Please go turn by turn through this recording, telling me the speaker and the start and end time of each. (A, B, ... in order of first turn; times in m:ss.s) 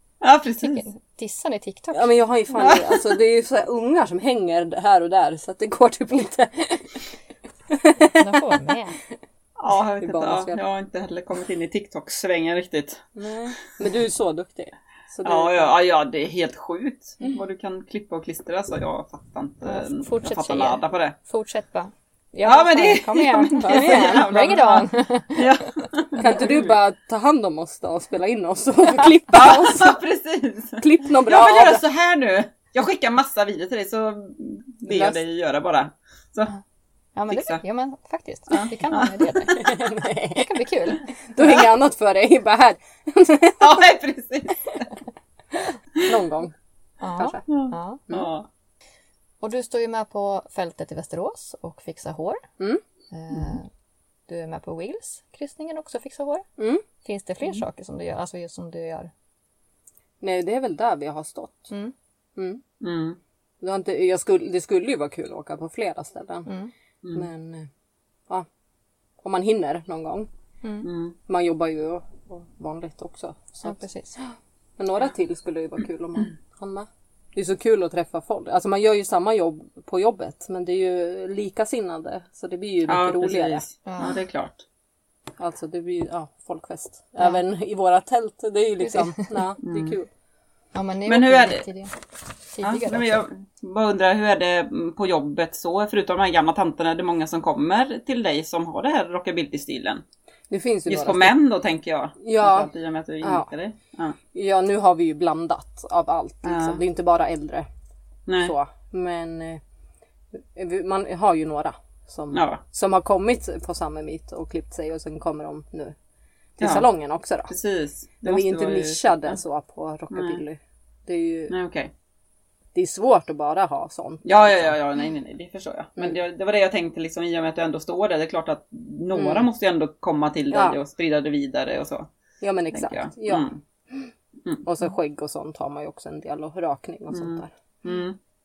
0:00.2-0:00.8 A
0:00.6-0:02.2 B
0:01.9-0:06.9 C
0:02.6-0:02.9 A
0:07.7-0:08.1 C
0:08.1-0:09.0 B
0:09.6-0:13.0 A
0:10.0-0:10.6 C
0:13.2-0:15.7 C
0:15.2-0:21.1 A
0:19.6-0:25.8 B
0:22.4-0:26.7 A
0:23.6-0:24.5 C
0:26.2-0:30.0 C
0:29.3-0:36.5 A
0:30.8-0:31.8 C
0:34.9-0:35.2 C
0:37.2-0:39.6 B
0:37.3-0:37.6 A
0:38.5-0:39.6 A
0:39.5-0:40.5 C
0:40.3-0:41.0 B
0:41.3-0:43.8 C
0:43.6-0:44.8 A
0:46.0-0:46.5 C
0:47.0-0:48.0 B
0:47.2-0:47.4 C
0:47.5-0:48.5 A
0:49.4-0:52.4 B
0:53.1-0:53.7 B
0:54.3-0:56.4 B
0:56.6-0:56.8 C
0:57.0-0:59.1 B
1:00.2-1:01.7 C
1:02.4-1:02.6 C
1:02.8-1:03.2 A
1:03.6-1:06.5 C
1:06.4-1:06.7 B
1:07.1-1:07.7 C
1:09.2-1:10.3 C
1:10.8-1:11.1 A
1:11.3-1:13.8 C
1:13.6-1:14.2 B
1:14.8-1:23.6 C
1:22.9-1:24.6 A
1:23.8-1:24.2 B
1:25.4-1:30.1 C
1:28.8-1:29.2 B
1:29.6-1:30.0 A
1:30.7-1:31.9 B
1:31.1-1:31.6 A
1:32.5-1:33.2 B
1:32.6-1:40.0 A
1:40.5-1:41.3 C
1:40.9-1:44.2 A
1:42.2-1:42.7 C
1:43.2-1:43.5 C
1:44.3-1:47.7 C
1:46.4-1:46.8 A
1:48.3-1:48.5 A
1:48.4-1:49.6 C
1:50.3-1:55.9 C
1:52.3-1:52.6 A
1:56.6-1:57.5 C
1:56.6-1:56.9 A
1:57.5-1:59.4 A
1:58.2-2:01.5 C
2:00.1-2:00.4 A
2:01.5-2:01.9 A
2:02.7-2:04.7 C
2:04.2-2:12.1 A
2:09.1-2:09.5 C
2:10.5-2:10.8 C
2:12.4-2:14.0 C
2:12.7-2:13.6 A
2:14.6-2:17.5 C
2:17.1-2:18.2 A